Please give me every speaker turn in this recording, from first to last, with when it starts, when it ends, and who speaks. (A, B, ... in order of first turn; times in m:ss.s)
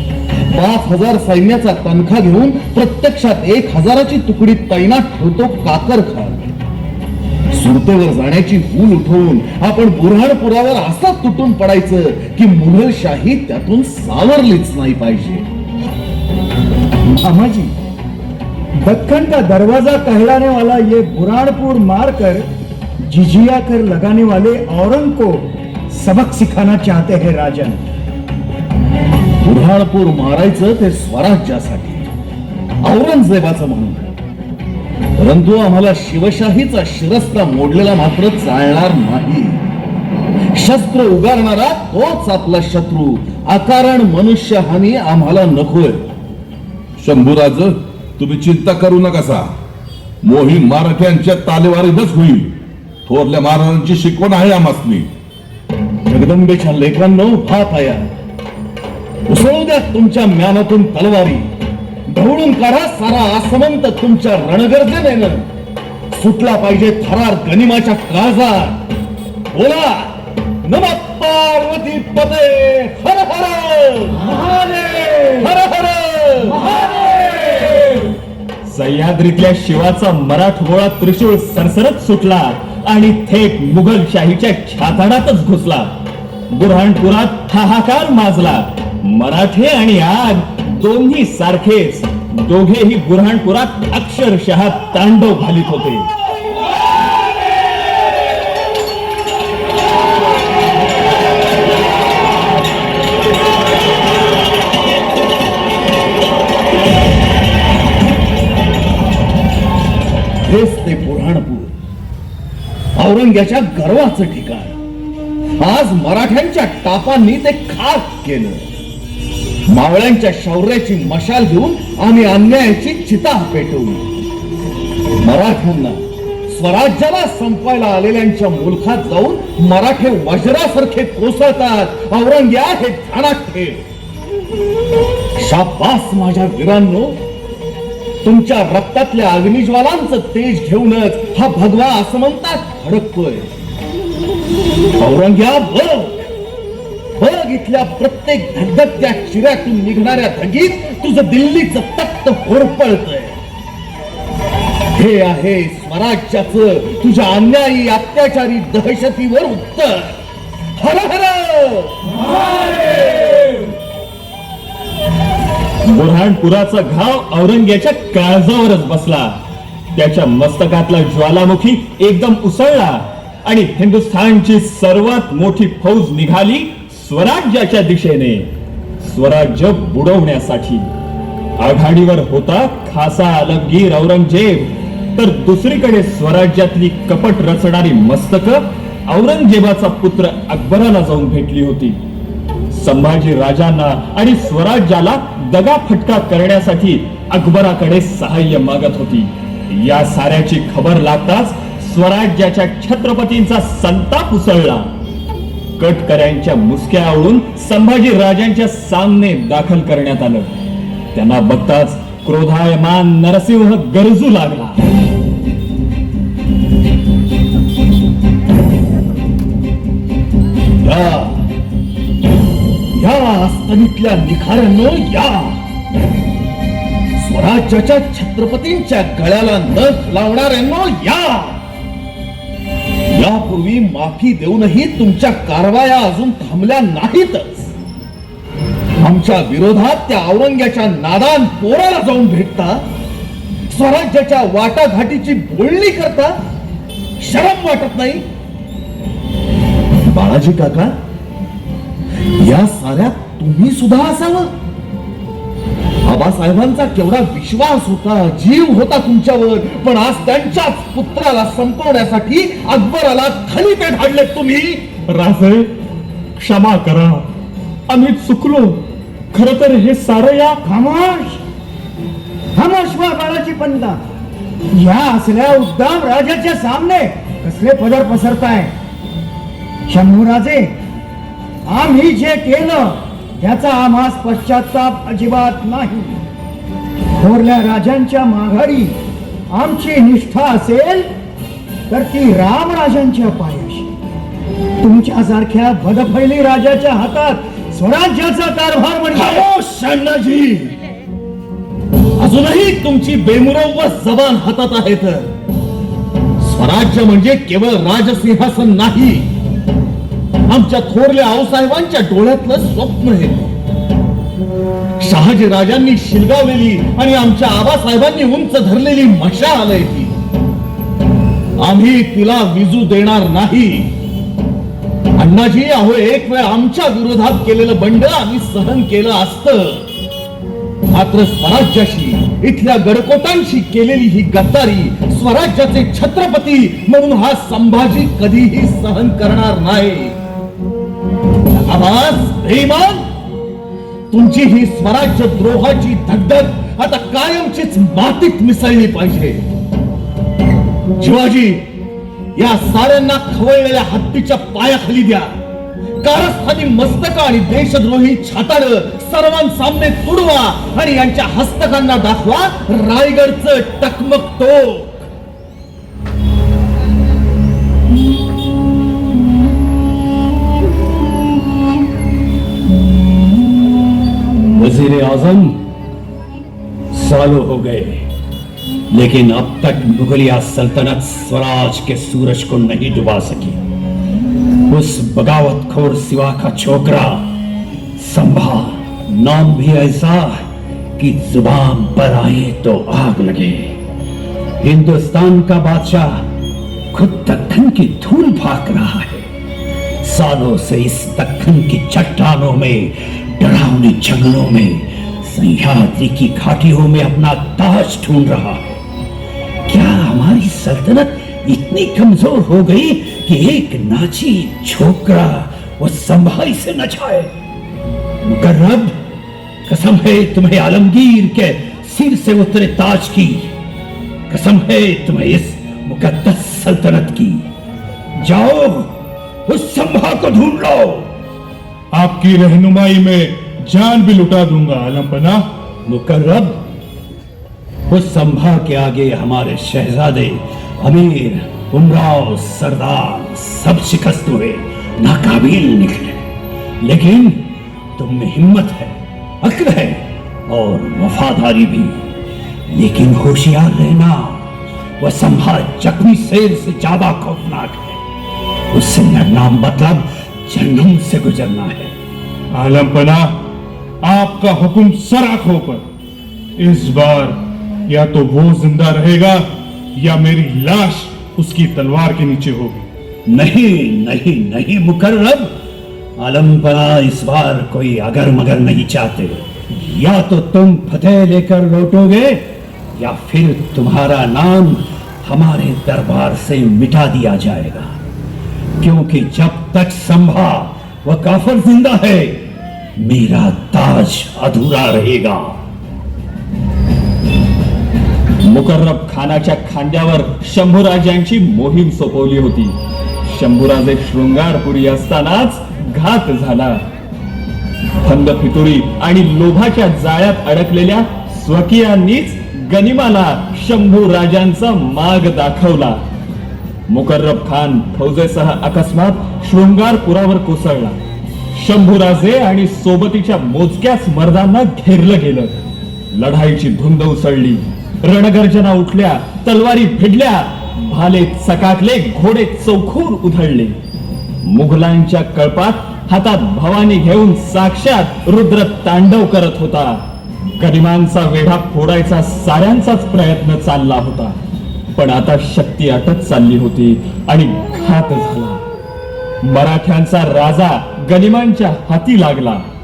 0:00.5-0:06.4 A
0:07.5-0:15.5 A
0:17.1-0:17.7 B
0:18.8-0:22.4 B
0:23.0-0:27.8 B
0:29.4-0:32.1 A
0:32.8-0:34.1 A
0:35.2-0:39.6 A
0:40.6-0:46.1 A
0:47.0-0:49.5 C
0:50.2-0:52.5 C
0:53.1-0:55.1 C
0:56.1-0:58.1 A
0:59.3-1:01.5 A
1:02.1-1:05.4 A
1:06.1-1:08.8 A
1:09.5-1:14.2 A
1:14.3-1:15.4 B
1:15.4-1:16.6 A
1:16.7-1:17.8 B
1:18.7-1:25.9 D
1:26.5-1:36.1 D
1:50.5-1:51.7 A
1:53.0-1:54.7 A
1:55.6-1:58.7 A
1:59.7-2:04.1 A
2:05.2-2:13.8 A
2:15.4-2:17.2 A
2:18.2-2:23.5 A
2:25.0-2:26.2 A
2:27.2-2:33.4 A
2:35.0-2:40.2 A
2:40.8-2:43.6 A
2:45.9-2:49.4 D
2:50.0-2:58.5 D
2:59.0-3:00.9 D
3:01.6-3:12.0 D
3:12.7-3:24.9 D
3:25.8-3:30.6 D
3:31.1-3:34.8 D
3:40.8-3:41.4 A
3:42.9-3:45.6 A
3:47.2-3:51.6 A
3:53.1-3:57.7 A
3:59.0-4:02.8 A
4:03.6-4:06.4 A
4:07.2-4:08.2 A
4:10.1-4:11.0 A
4:12.3-4:14.5 A
4:16.0-4:24.9 A
4:25.1-4:25.7 D
4:26.4-4:27.3 D
4:27.9-4:28.8 D
4:29.3-4:30.6 D
4:30.6-4:31.4 B
4:32.6-4:34.0 B
4:34.7-4:38.7 B
4:39.9-4:40.8 B
4:41.7-4:46.2 B
4:47.2-4:49.0 B
4:49.5-4:51.1 B
4:51.9-4:53.9 B
4:54.8-4:59.4 B
4:59.2-5:00.8 A
5:02.2-5:05.3 A
5:06.4-5:09.3 A
5:10.5-5:13.5 A
5:15.0-5:20.2 A
5:21.6-5:23.9 A
5:25.2-5:29.9 A
5:30.9-5:40.2 A
5:41.6-5:43.1 A
5:44.1-5:49.4 A
5:51.0-5:51.7 A
5:52.4-5:55.3 A
5:56.0-6:05.1 A
6:14.5-6:15.6 E
6:16.9-6:18.1 E
6:18.9-6:23.6 E
6:24.7-6:27.3 E
6:28.0-6:30.5 E
6:31.0-6:33.8 E
6:34.6-6:36.3 E
6:36.9-6:39.3 E
6:40.0-6:48.8 E
6:49.7-6:57.3 E
6:58.2-6:59.0 E
6:59.7-7:03.5 E
7:04.3-7:07.5 E
7:08.2-7:08.9 E
7:09.5-7:11.1 E
7:11.9-7:15.4 F
7:15.9-7:16.6 E
7:17.9-7:26.2 E
7:26.8-7:32.0 E
7:32.7-7:38.0 E
7:38.7-7:41.9 E
7:42.5-7:43.3 F
7:44.0-7:45.8 F
7:46.6-7:47.4 F
7:47.9-7:52.9 F
7:53.3-7:55.5 E
7:56.2-8:02.4 E
8:03.0-8:08.0 E
8:08.8-8:12.5 E
8:13.0-8:15.6 E
8:18.4-8:26.8 D
8:28.0-8:36.0 D
8:36.9-8:41.0 D
8:41.6-8:45.6 D
8:46.1-8:53.8 D
8:54.4-9:00.0 D
9:00.6-9:04.4 D
9:05.0-9:08.6 D
9:09.4-9:12.6 D